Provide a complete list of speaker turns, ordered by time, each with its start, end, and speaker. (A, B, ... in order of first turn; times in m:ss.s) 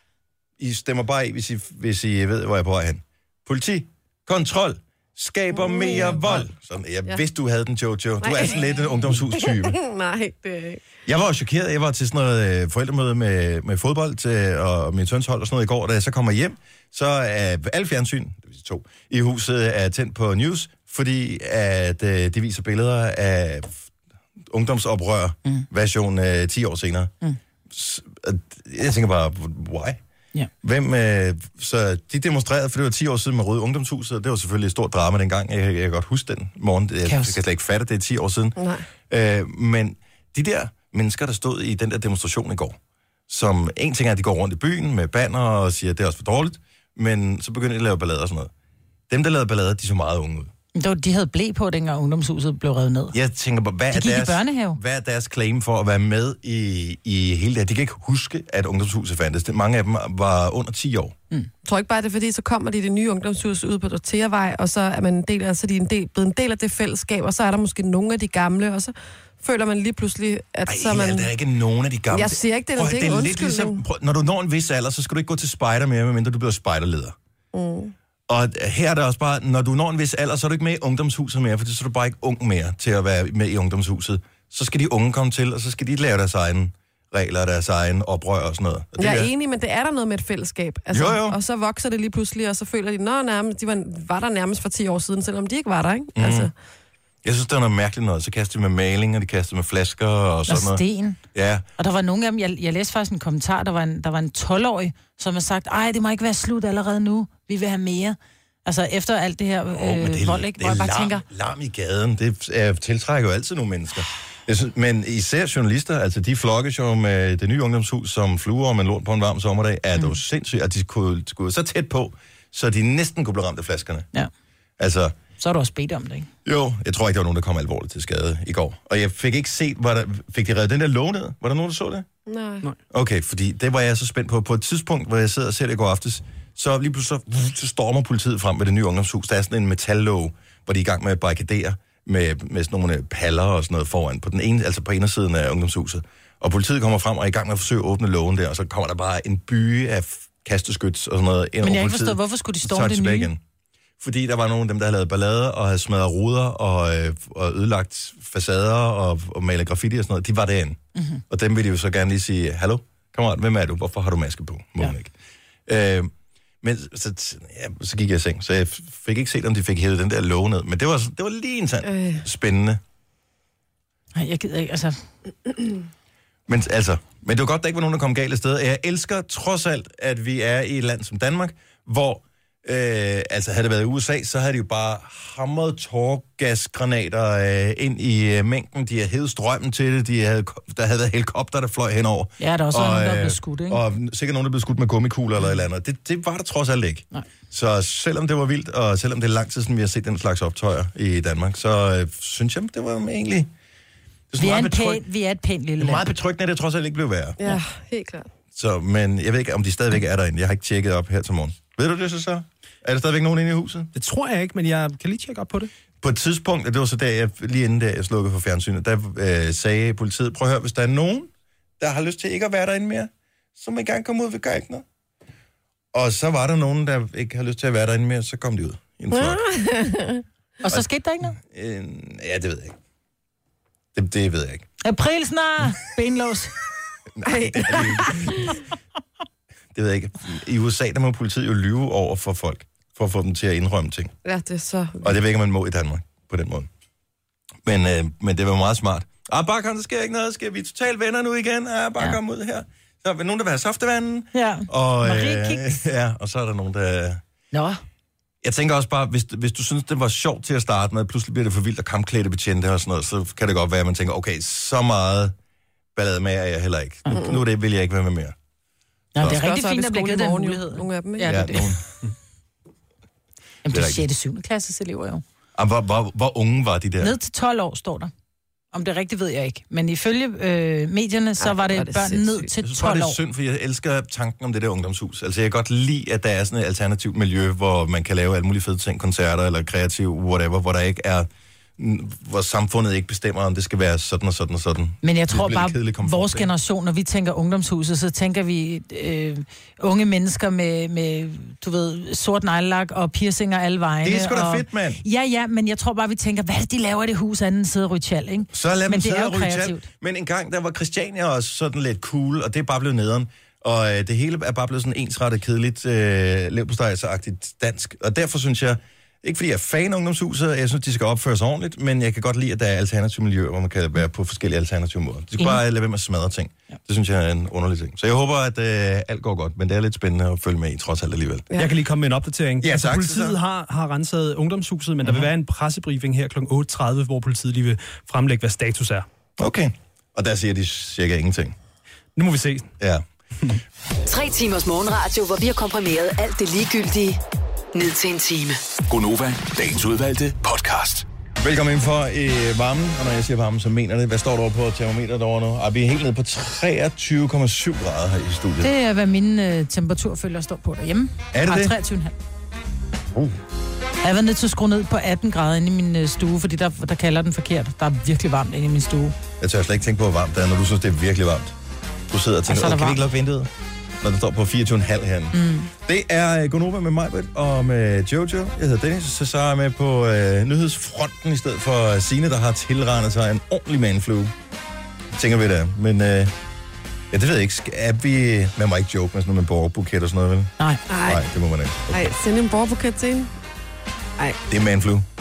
0:00.6-0:09.8 A
0:05.5-0:06.4 B
0:08.2-0:08.6 B
0:09.2-0:10.8 B
0:11.0-0:23.8 A
0:24.5-0:27.1 A
0:27.7-0:30.0 A
0:30.6-0:38.6 A
0:37.0-0:37.3 C
0:38.6-0:38.8 B
0:39.1-0:42.8 A
0:43.3-0:48.5 A
0:49.1-0:50.5 A
0:50.7-0:53.1 C
0:53.1-1:01.1 A
0:53.9-0:54.8 C
1:01.6-1:11.3 B
1:10.7-1:17.2 A
1:12.1-1:13.8 B
1:17.5-1:17.9 B
1:18.3-1:29.3 A
1:29.0-1:36.5 B
1:30.9-1:31.4 A
1:36.2-1:36.5 A
1:37.2-1:40.8 A
1:40.5-1:41.2 C
1:41.3-1:41.6 A
1:41.8-1:51.2 C
1:49.7-2:04.1 A
2:04.8-2:05.1 A
2:05.4-2:06.3 C
2:06.4-2:12.1 A
2:12.3-2:12.6 B
2:12.9-2:33.4 A
2:31.6-2:33.3 C
2:34.0-2:45.1 A
2:41.0-2:41.2 C
2:45.7-2:46.1 A
2:46.6-2:52.8 A
2:51.8-2:52.2 B
2:54.1-2:55.0 C
2:56.5-3:23.5 A
3:12.4-3:13.8 C
3:24.3-3:25.0 A
3:24.4-3:26.1 C
3:25.8-3:27.4 A
3:27.4-3:28.3 B
3:28.5-3:33.9 A
3:33.9-3:35.7 D
3:36.0-3:44.8 A
3:45.9-3:49.4 A
3:49.1-3:50.2 B
3:50.6-3:51.4 C
3:51.4-3:52.8 A
3:53.9-3:54.7 A
3:54.8-3:56.5 C
3:57.1-3:58.6 A
3:57.2-3:58.6 B
3:59.7-4:04.1 A
4:04.2-4:05.2 B
4:05.0-4:06.7 A
4:07.6-4:17.2 A
4:14.3-4:15.8 C
4:17.5-4:17.8 C
4:18.4-4:25.3 A
4:25.9-4:28.3 A
4:27.1-4:27.4 B
4:29.1-4:31.7 C
4:29.2-4:31.6 B
4:31.3-4:31.8 A
4:33.6-4:35.2 C
4:33.7-4:34.0 A
4:35.5-4:37.1 A
4:37.0-4:38.1 C
4:38.7-4:43.2 C
4:41.4-4:42.5 B
4:42.6-4:56.5 A
4:55.0-5:09.8 C
5:04.0-5:05.0 A
5:08.5-5:31.5 A
5:31.5-5:39.0 D
5:32.6-5:33.4 A
5:35.0-5:35.3 A
5:39.4-5:41.6 A
5:42.2-5:42.7 D
5:42.8-5:43.0 A
5:44.1-5:47.2 E
5:47.7-5:48.6 E
5:48.9-5:51.0 F
5:51.4-5:58.7 A
5:58.6-6:02.1 C
6:01.3-6:01.7 A
6:03.1-6:03.4 A
6:04.0-6:09.2 C
6:09.4-6:11.5 A
6:12.1-6:24.3 A
6:12.5-6:13.0 C
6:15.3-6:15.7 C
6:25.1-6:26.3 A
6:27.1-6:32.0 A
6:30.9-6:31.2 B
6:31.9-6:33.3 B
6:34.5-6:35.1 A